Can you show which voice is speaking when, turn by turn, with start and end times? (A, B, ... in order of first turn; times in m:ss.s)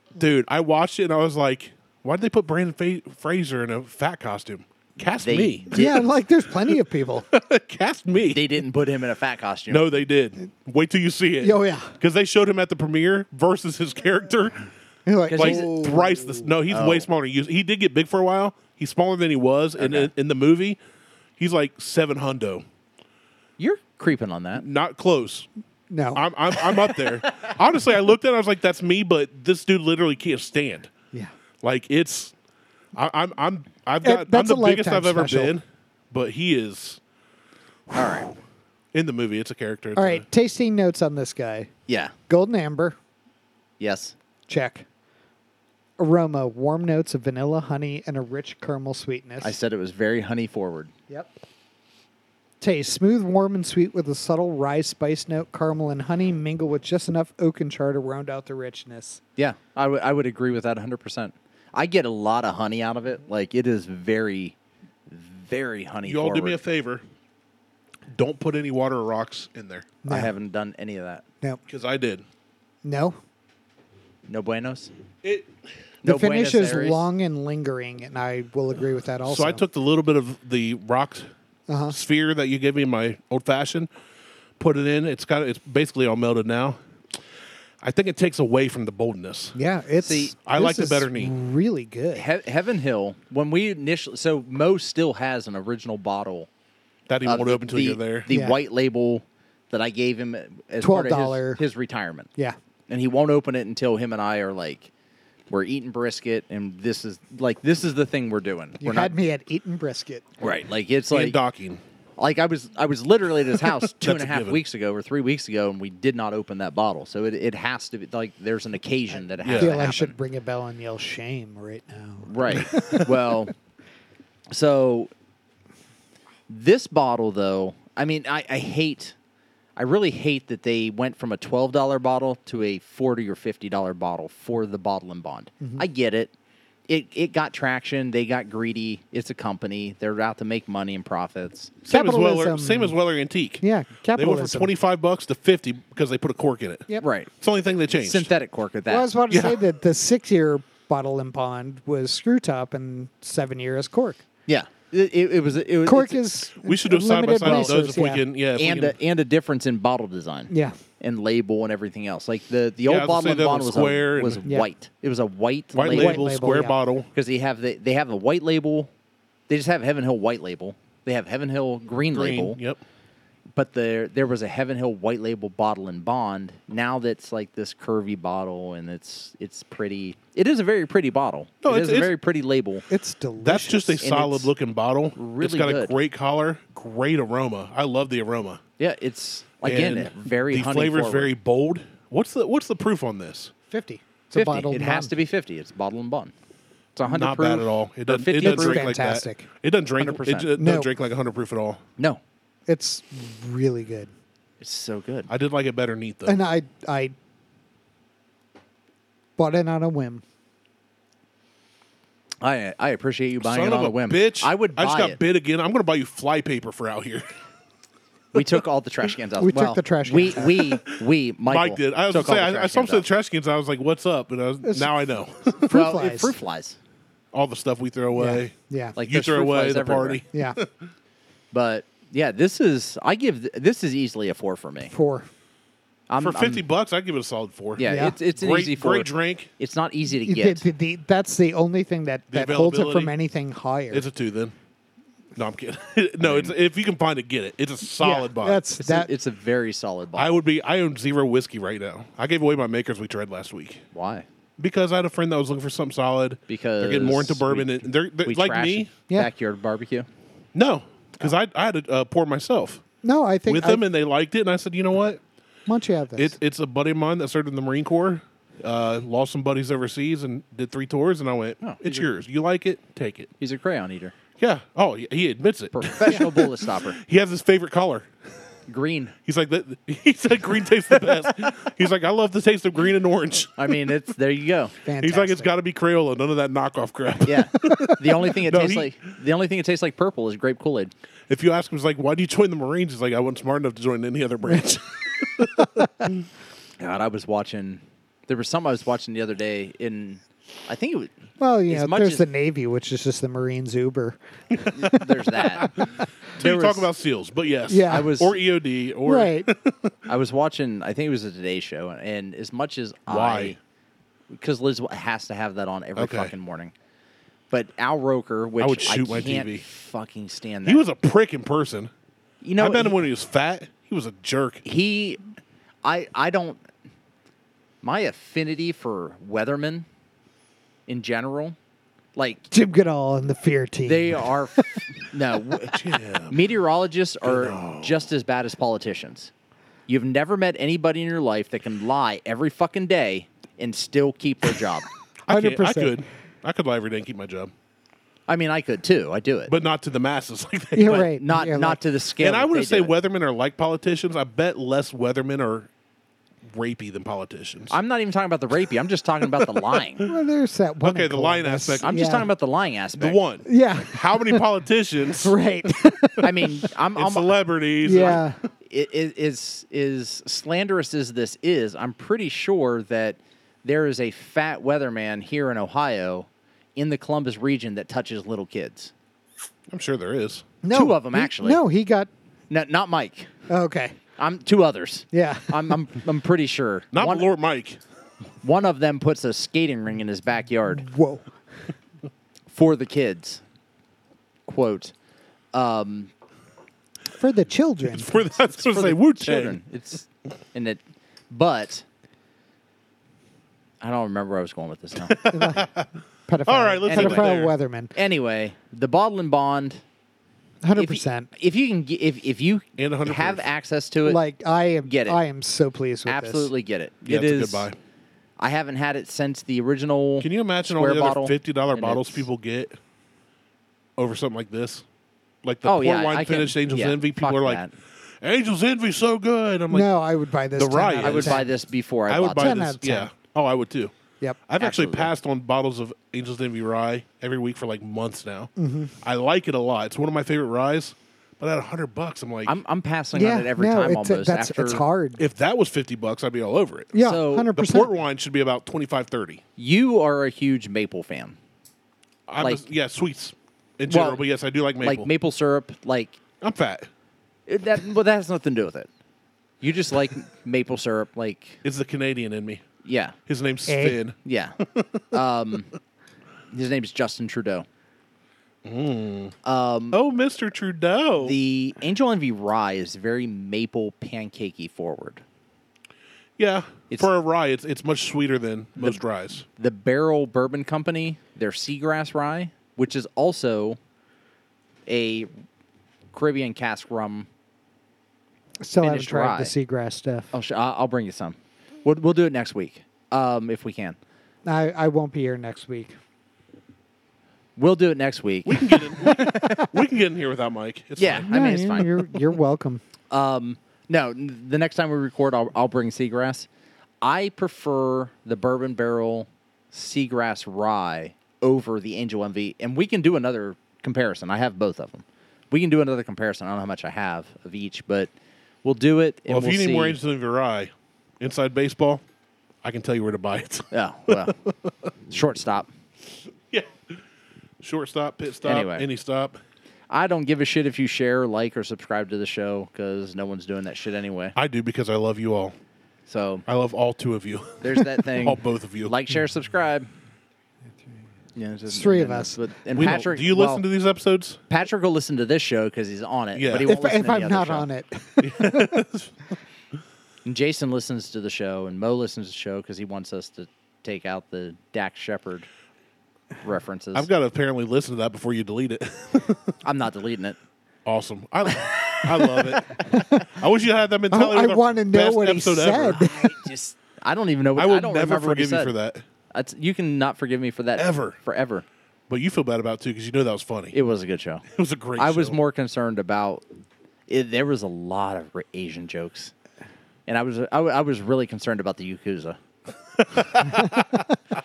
0:00.2-0:05.9 A
0:05.2-0:06.0 B
0:05.7-0:07.3 C
0:07.3-0:08.5 A
0:08.3-0:09.8 B
0:09.7-0:14.6 A
0:11.4-0:12.0 C
0:15.1-0:16.5 C
0:15.3-0:15.7 B
0:15.4-0:20.8 A
0:16.7-0:17.1 B
0:19.8-0:20.1 B
0:21.4-0:22.6 A
0:23.6-0:24.6 B
0:24.6-0:25.5 A
0:25.9-0:26.2 C
0:26.1-0:30.9 A
0:31.6-0:32.3 A
0:33.0-0:37.0 A
0:34.0-0:35.6 C
0:37.9-0:38.3 B
0:38.9-0:40.2 A
0:40.0-0:41.7 C
0:41.9-0:42.1 B
0:42.3-0:43.0 C
0:43.8-0:44.2 B
0:44.5-0:44.8 C
0:46.0-0:49.6 C
0:49.4-0:50.9 B
0:52.6-0:59.2 C
0:59.4-1:04.6 B
1:05.1-1:06.6 B
1:06.0-1:07.0 A
1:08.1-1:09.9 A
1:10.0-1:10.3 C
1:10.1-1:11.2 B
1:11.7-1:12.2 A
1:12.8-1:13.2 C
1:14.3-1:14.9 B
1:15.2-1:15.5 A
1:16.0-1:17.1 B
1:16.0-1:19.6 C
1:19.2-1:21.3 A
1:21.7-1:22.0 C
1:21.9-1:23.9 A
1:24.6-1:26.8 A
1:27.8-1:29.6 A
1:29.6-1:32.2 C
1:30.0-1:30.3 B
1:30.4-1:31.3 A
1:32.2-1:36.5 B
1:37.1-1:38.3 A
1:37.2-1:42.3 B
1:38.3-1:38.6 C
1:40.8-1:41.6 C
1:42.9-1:44.9 B
1:45.5-1:49.1 B
1:48.8-1:50.2 C
1:50.4-1:51.4 B
1:51.1-1:51.8 A
1:52.2-2:00.2 B
1:54.0-1:54.6 A
1:59.4-1:59.7 A
1:59.5-2:03.1 C
2:02.3-2:03.5 B
2:02.7-2:03.0 A
2:04.5-2:05.1 B
2:06.5-2:09.2 B
2:09.8-2:16.3 B
2:16.9-2:21.7 B
2:21.9-2:28.3 A
2:21.9-2:23.0 C
2:23.6-2:24.7 C
2:27.0-2:27.3 B
2:27.9-2:29.1 B
2:28.9-2:34.2 C
2:29.3-2:29.6 A
2:34.5-2:36.2 B
2:35.8-2:38.2 C
2:36.6-2:39.0 A
2:37.5-2:37.8 B
2:38.6-2:46.2 B
2:40.5-2:40.8 C
2:42.8-2:44.4 A
2:45.7-2:47.1 A
2:45.9-2:46.8 C
2:47.1-2:48.9 B
2:49.5-2:52.6 B
2:52.1-2:52.8 A
2:53.6-3:02.8 B
3:01.6-3:02.1 A
3:02.9-3:04.0 C
3:03.4-3:08.6 A
3:04.0-3:04.5 B
3:05.2-3:06.0 B
3:08.8-3:11.3 B
3:09.6-3:13.5 A
3:13.7-3:15.1 C
3:14.3-3:16.3 B
3:17.0-3:18.9 B
3:17.1-3:21.8 A
3:18.4-3:19.5 C
3:20.0-3:20.5 B
3:20.6-3:20.9 C
3:22.7-3:24.1 C
3:24.6-3:25.3 B
3:25.3-3:26.4 A
3:26.2-3:27.2 C
3:29.4-3:30.2 C
3:32.4-3:35.2 B
3:33.4-3:37.3 A
3:38.3-3:43.1 B
3:39.4-3:40.6 C
3:41.5-3:45.8 A
3:44.6-3:44.9 C
3:45.6-3:46.4 C
3:45.7-3:46.8 B
3:47.3-3:50.7 A
3:48.1-3:49.0 C
3:49.0-3:50.2 B
3:51.5-3:54.9 B
3:54.9-3:55.3 C
3:56.1-3:56.6 B
3:56.2-3:59.5 A
3:57.8-4:00.7 B
3:57.8-3:58.2 C
4:00.2-4:04.0 C
4:02.3-4:03.1 A
4:03.9-4:04.5 A
4:05.4-4:08.6 A
4:06.2-4:06.5 B
4:08.0-4:09.1 C
4:08.8-4:10.4 B
4:10.2-4:13.8 A
4:13.9-4:14.3 B
4:14.6-4:18.9 A
4:16.5-4:20.1 B
4:20.6-4:22.8 A
4:23.0-4:23.8 C
4:23.5-4:25.2 A
4:25.7-4:26.4 C
4:26.2-4:33.3 A
4:31.6-4:32.0 B
4:33.4-4:34.1 B
4:34.4-4:38.1 A
4:35.7-4:37.0 B
4:38.7-4:39.2 B
4:39.3-4:43.9 A
4:43.6-4:44.8 B
4:44.8-4:45.5 C
4:45.0-4:49.0 A
4:47.2-4:50.9 B
4:51.3-4:55.7 A
4:55.6-4:56.1 C
4:56.8-5:01.1 B
5:01.4-5:06.0 C
5:01.7-5:02.3 B
5:04.7-5:05.7 B
5:05.6-5:09.9 A
5:06.4-5:06.9 B
5:07.7-5:08.2 C
5:07.9-5:08.4 B
5:09.0-5:09.5 C
5:10.1-5:13.6 B
5:13.1-5:13.6 A
5:14.3-5:16.7 B
5:16.0-5:16.3 A
5:17.5-5:20.8 B
5:18.6-5:19.6 A
5:20.6-5:21.9 A
5:22.4-5:23.0 B
5:22.6-5:24.6 A
5:24.6-5:25.2 B
5:25.8-5:26.6 B
5:27.8-5:29.9 B
5:30.9-5:31.6 B
5:32.2-5:32.5 B
5:32.5-5:34.9 C
5:33.8-5:39.3 B
5:35.7-5:36.4 A
5:37.2-5:38.1 A
5:39.9-5:44.9 B
5:45.3-5:47.5 A
5:45.3-5:46.0 C
5:48.3-5:49.5 B
5:49.5-5:51.1 A
5:50.8-5:51.8 C
5:50.8-5:52.9 B
5:52.2-5:55.7 A
5:56.5-5:57.8 A
5:57.7-6:00.1 B
6:00.0-6:02.3 C
6:00.8-6:02.0 A
6:01.8-6:03.2 B
6:03.0-6:06.2 A
6:03.4-6:04.5 C
6:05.2-6:06.6 C
6:06.2-6:07.3 B
6:07.0-6:08.3 A
6:07.8-6:08.4 C
6:08.7-6:18.9 B
6:19.7-6:20.5 A
6:20.6-6:22.1 C
6:20.7-6:21.6 B
6:22.5-6:23.3 B
6:23.5-6:24.0 C
6:24.2-6:27.3 B
6:25.1-6:25.8 C
6:26.9-6:27.8 A
6:28.4-6:30.9 B
6:30.7-6:31.3 C
6:32.5-6:33.4 B
6:34.5-6:34.9 B
6:35.5-6:36.1 B
6:37.2-6:38.3 C
6:37.9-6:39.6 A
6:38.6-6:41.8 B
6:43.8-6:45.2 B
6:45.0-6:45.9 A
6:45.3-6:45.7 C
6:46.3-6:47.9 C
6:46.4-6:47.5 A
6:46.9-6:47.3 B
6:48.0-6:49.8 B
6:50.6-6:51.3 C
6:50.8-6:54.2 B
6:52.8-6:53.5 A
6:54.0-6:56.5 C
6:54.8-6:55.2 B
6:56.1-6:57.7 B
6:57.1-6:57.8 A
6:58.4-7:02.3 B
7:00.2-7:02.8 A
7:04.0-7:04.8 A
7:05.4-7:09.9 A
7:05.6-7:07.7 B
7:09.7-7:11.5 C
7:10.5-7:11.5 A
7:11.0-7:12.6 B
7:12.1-7:13.9 A
7:12.3-7:13.1 C
7:14.5-7:22.6 A
7:14.6-7:15.1 B
7:18.6-7:18.9 C
7:22.5-7:24.8 B
7:23.1-7:25.2 C
7:25.2-7:26.9 A
7:26.9-7:27.9 C
7:27.0-7:27.5 B
7:27.5-7:29.4 A
7:29.6-7:31.4 B
7:32.3-7:35.1 A
7:33.9-7:34.2 B
7:34.8-7:36.2 B
7:36.4-7:36.9 A
7:37.5-7:38.9 B
7:39.6-7:41.6 B
7:41.6-7:42.6 A
7:42.8-7:43.2 B
7:43.3-7:44.2 A
7:43.7-7:44.0 C
7:44.2-7:44.6 B
7:45.1-7:45.7 B
7:46.5-7:47.7 B
7:48.6-7:49.4 A
7:49.4-7:50.0 B
7:49.9-7:51.4 A
7:51.2-7:55.2 B
7:56.4-7:59.5 A
7:59.6-8:03.8 B
8:04.9-8:05.3 B
8:06.1-8:07.3 B
8:08.6-8:10.3 C
8:08.8-8:09.5 B
8:10.3-8:14.0 B
8:14.4-8:16.0 C
8:17.6-8:19.7 B
8:18.5-8:21.3 A
8:21.0-8:22.1 B
8:21.3-8:22.8 C
8:23.1-8:26.5 B
8:27.0-8:38.1 B
8:38.6-8:40.0 B
8:39.3-8:42.0 A
8:42.6-8:44.4 A
8:43.7-8:44.4 B
8:45.1-8:45.7 B
8:46.5-8:46.8 A
8:47.6-8:49.4 A
8:48.4-8:48.9 B
8:49.9-8:54.4 B
8:54.4-8:55.6 A
8:56.1-8:56.4 B
8:56.5-8:58.9 A
8:57.6-8:59.9 B
9:01.4-9:03.6 B
9:01.7-9:02.9 C
9:02.7-9:04.4 A
9:04.5-9:07.7 B
9:06.4-9:06.7 A
9:06.6-9:08.8 C
9:08.2-9:09.1 A
9:10.2-9:15.5 B
9:16.4-9:17.1 B
9:16.9-9:19.5 A
9:19.6-9:20.4 B
9:20.8-9:26.0 A
9:22.9-9:23.2 C
9:24.1-9:26.3 C
9:26.0-9:28.7 B
9:27.6-9:29.0 A
9:29.3-9:31.6 B
9:30.8-9:31.2 A
9:32.1-9:33.8 A
9:33.7-9:34.4 B
9:34.5-9:35.4 A
9:35.0-9:36.4 B
9:37.1-9:39.3 B
9:40.1-9:42.4 B
9:43.0-9:44.1 A